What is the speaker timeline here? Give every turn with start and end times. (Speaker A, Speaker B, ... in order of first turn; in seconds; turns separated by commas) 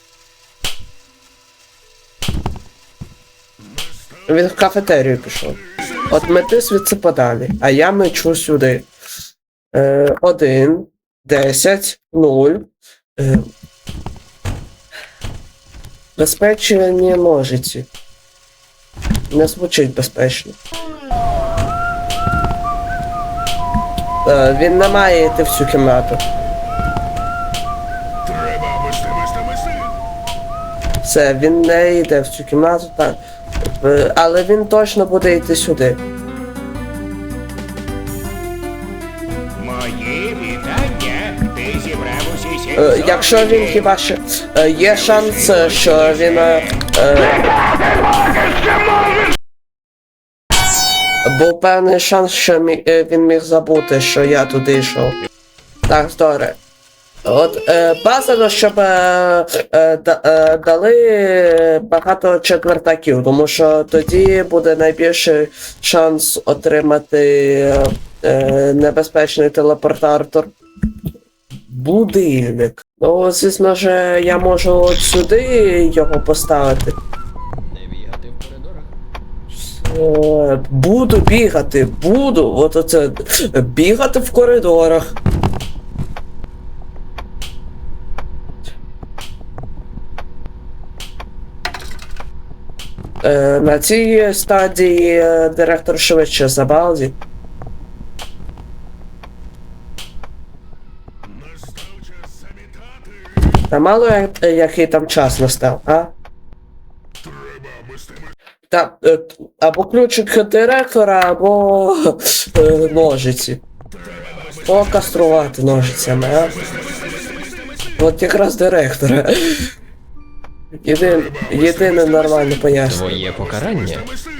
Speaker A: 4.3-8.9, Speaker A: 9.7-12.7, Speaker A: 13.2-13.5, Speaker A: 16.2-17.9, Speaker A: 19.3-20.6, Speaker A: 24.2-26.2, Speaker A: 31.0-36.0, Speaker B: 39.6-43.9, Speaker A: 42.8-47.4, Speaker B: 44.8-46.8, Speaker A: 51.2-55.2, Speaker A: 55.9-56.6, Speaker A: 57.2-70.5, Speaker A: 71.6-77.0, Speaker C: 77.7-79.0, Speaker A: 79.5-85.1, Speaker A: 93.2-97.2, Speaker A: 103.7-106.1, Speaker A: 108.7-113.6, Speaker A: 114.5-116.6, Speaker A: 118.0-119.7, Speaker A: 120.8-123.1, Speaker C: 122.8-124.1